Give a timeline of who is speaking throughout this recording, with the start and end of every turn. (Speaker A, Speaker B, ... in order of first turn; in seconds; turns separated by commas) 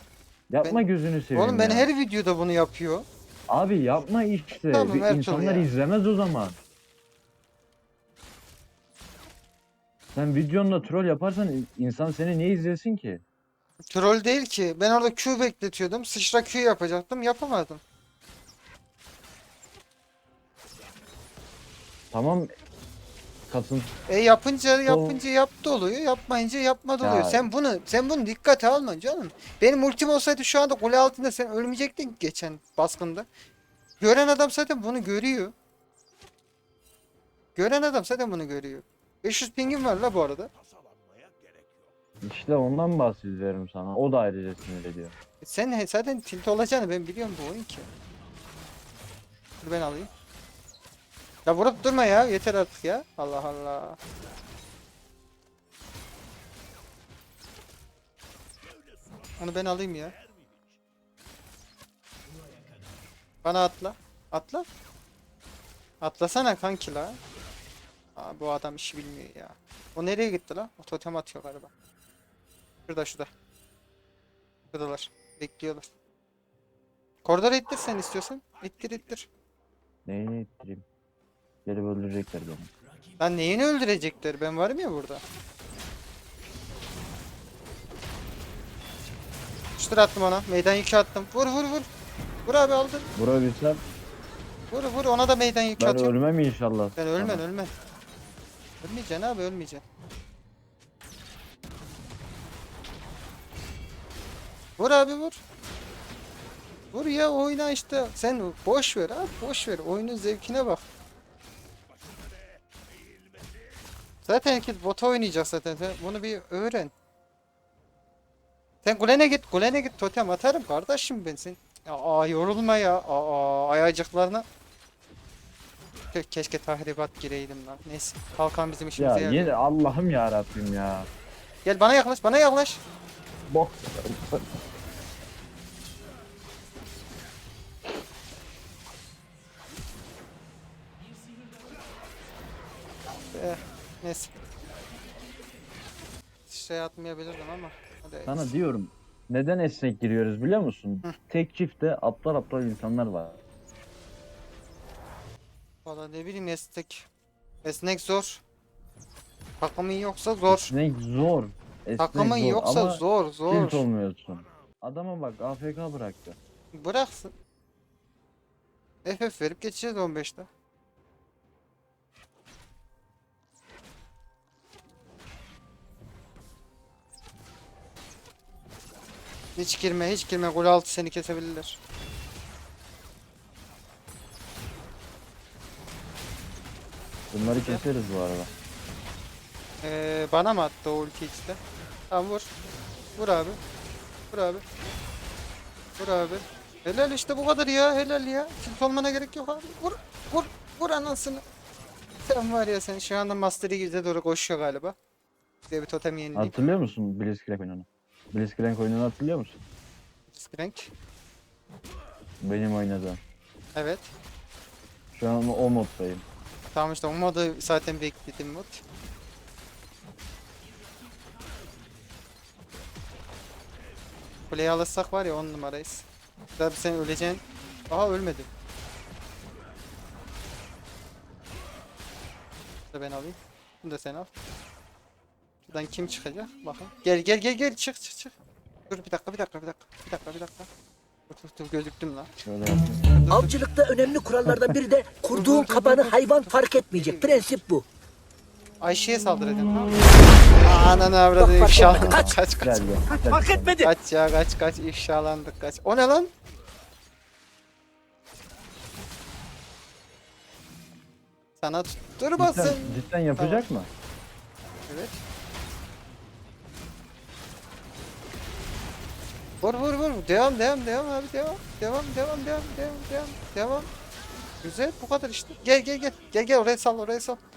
Speaker A: 0.5-1.9, Speaker B: 0.6-3.1, Speaker A: 3.5-6.6, Speaker B: 4.7-5.7, Speaker A: 10.1-13.2, Speaker B: 13.9-17.8, Speaker A: 22.1-22.5, Speaker A: 23.5-23.9, Speaker B: 24.1-33.2, Speaker A: 24.9-25.2, Speaker A: 27.0-27.5, Speaker B: 34.0-35.5, Speaker B: 37.5-40.5, Speaker A: 42.2-45.1, Speaker B: 45.4-47.9, Speaker B: 49.6-50.1, Speaker B: 51.5-54.0, Speaker B: 59.4-60.1, Speaker B: 63.4-64.6, Speaker B: 66.0-67.2, Speaker B: 68.2-71.7, Speaker B: 72.9-73.3, Speaker B: 74.7-75.9, Speaker B: 77.2-79.3, Speaker A: 80.0-80.8, Speaker A: 81.6-82.7, Speaker B: 83.2-85.2, Speaker B: 89.8-91.9, Speaker B: 92.5-93.1, Speaker A: 93.2-93.8, Speaker B: 94.7-96.1, Speaker A: 95.8-97.4, Speaker B: 97.0-97.7, Speaker B: 98.8-99.8, Speaker B: 104.8-105.4, Speaker B: 106.9-110.8, Speaker B: 114.2-116.9, Speaker B: 118.8-124.4, Speaker B: 126.1-129.6, Speaker A: 129.0-131.1, Speaker B: 131.6-132.8, Speaker A: 133.5-134.5, Speaker B: 143.3-144.3, Speaker B: 146.5-148.5, Speaker A: 148.2-153.4, Speaker B: 155.8-157.1, Speaker B: 157.6-158.4, Speaker B: 159.6-160.7, Speaker A: 160.5-166.4, Speaker B: 162.0-163.8, Speaker B: 166.7-167.3, Speaker B: 169.0-170.5, Speaker B: 179.6-181.8, Speaker A: 187.3-188.5, Speaker B: 187.4-187.8, Speaker B: 189.8-191.6, Speaker B: 192.1-192.5, Speaker B: 193.2-193.6, Speaker B: 194.3-194.6, Speaker B: 196.0-201.4, Speaker B: 202.2-204.9, Speaker B: 205.7-206.5, Speaker A: 206.3-209.6, Speaker B: 210.3-210.9, Speaker A: 212.4-213.2, Speaker B: 213.7-214.1, Speaker A: 215.1-216.2, Speaker B: 216.7-218.8, Speaker B: 224.5-226.1, Speaker B: 226.6-228.5, Speaker B: 232.9-234.3, Speaker B: 235.7-238.3, Speaker B: 238.9-240.7, Speaker B: 241.3-242.3, Speaker A: 242.4-243.2, Speaker B: 243.1-243.5, Speaker C: 243.3-247.8, Speaker A: 244.4-244.7, Speaker B: 245.3-247.4, Speaker B: 248.8-252.8, Speaker C: 251.4-252.3, Speaker A: 251.7-253.8, Speaker C: 253.1-253.9, Speaker B: 253.8-256.3, Speaker B: 261.6-263.7, Speaker A: 262.4-263.9, Speaker B: 264.9-265.2, Speaker B: 269.6-273.9, Speaker B: 274.6-277.4